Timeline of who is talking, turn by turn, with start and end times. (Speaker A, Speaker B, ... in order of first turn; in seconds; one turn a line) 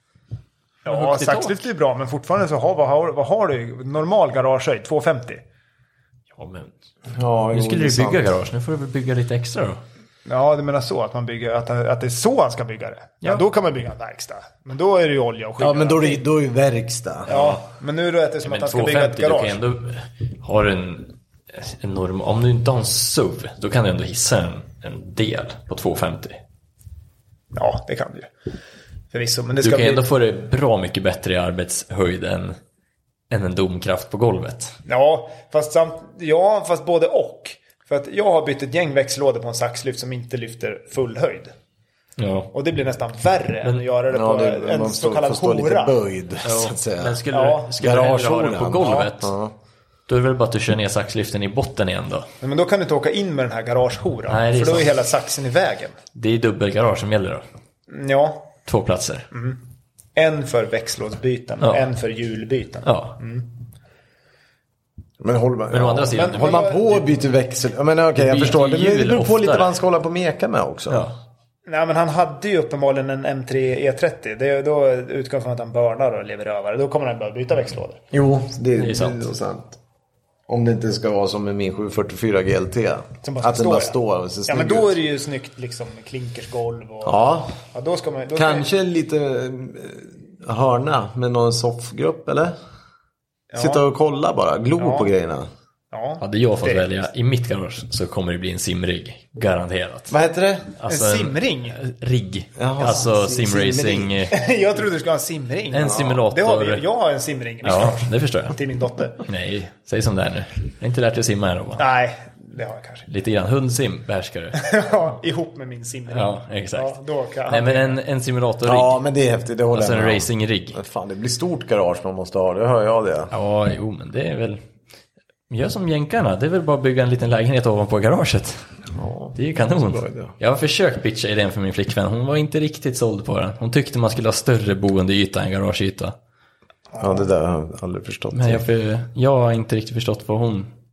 Speaker A: 0.8-5.4
Speaker B: 0.9-1.5
Speaker B: 6.4-6.7
Speaker C: 7.1-8.3
Speaker B: 7.5-9.8
Speaker A: 10.3-16.2
Speaker C: 15.6-17.4
Speaker A: 17.3-19.6
Speaker B: 18.4-26.4
Speaker A: 27.5-28.3
Speaker A: 29.1-30.0
Speaker B: 29.6-32.6
Speaker B: 33.3-34.8
Speaker A: 34.9-41.5
Speaker B: 42.2-42.5
Speaker A: 42.5-46.0
Speaker C: 44.1-47.2
Speaker B: 46.4-49.3
Speaker A: 47.3-47.7
Speaker C: 47.8-49.5
Speaker A: 48.8-49.1
Speaker B: 50.1-52.3
Speaker A: 52.4-56.0
Speaker B: 54.3-55.0
Speaker B: 56.1-57.4
Speaker A: 57.9-58.5
Speaker B: 58.7-59.3
Speaker A: 59.3-59.6
Speaker A: 60.1-63.5
Speaker B: 61.6-61.9
Speaker B: 62.8-63.2
Speaker C: 65.2-71.1
Speaker B: 65.7-66.8
Speaker A: 66.2-66.8
Speaker B: 68.2-69.7
Speaker B: 70.9-71.2
Speaker A: 71.7-78.0
Speaker C: 78.1-79.8
Speaker B: 78.8-79.3
Speaker C: 80.5-84.9
Speaker A: 83.2-88.7
Speaker C: 87.0-87.6
Speaker C: 88.4-92.5
Speaker A: 93.5-93.8
Speaker C: 93.5-95.5
Speaker A: 94.8-95.1
Speaker A: 95.9-96.9
Speaker B: 96.2-100.1
Speaker C: 100.1-100.7
Speaker B: 100.8-104.4
Speaker A: 100.9-101.8
Speaker C: 102.6-104.2
Speaker A: 104.3-109.2
Speaker B: 105.7-106.8
Speaker B: 107.6-108.6
Speaker B: 109.2-111.9
Speaker A: 111.8-113.1
Speaker B: 113.1-114.6
Speaker A: 114.5-118.0
Speaker B: 116.1-116.9
Speaker B: 117.5-119.0
Speaker C: 118.7-123.3
Speaker B: 119.7-120.8
Speaker B: 123.3-124.6
Speaker B: 125.5-128.7
Speaker C: 128.9-130.3
Speaker B: 129.3-136.2
Speaker A: 136.9-137.3
Speaker C: 137.0-138.6
Speaker B: 138.3-140.7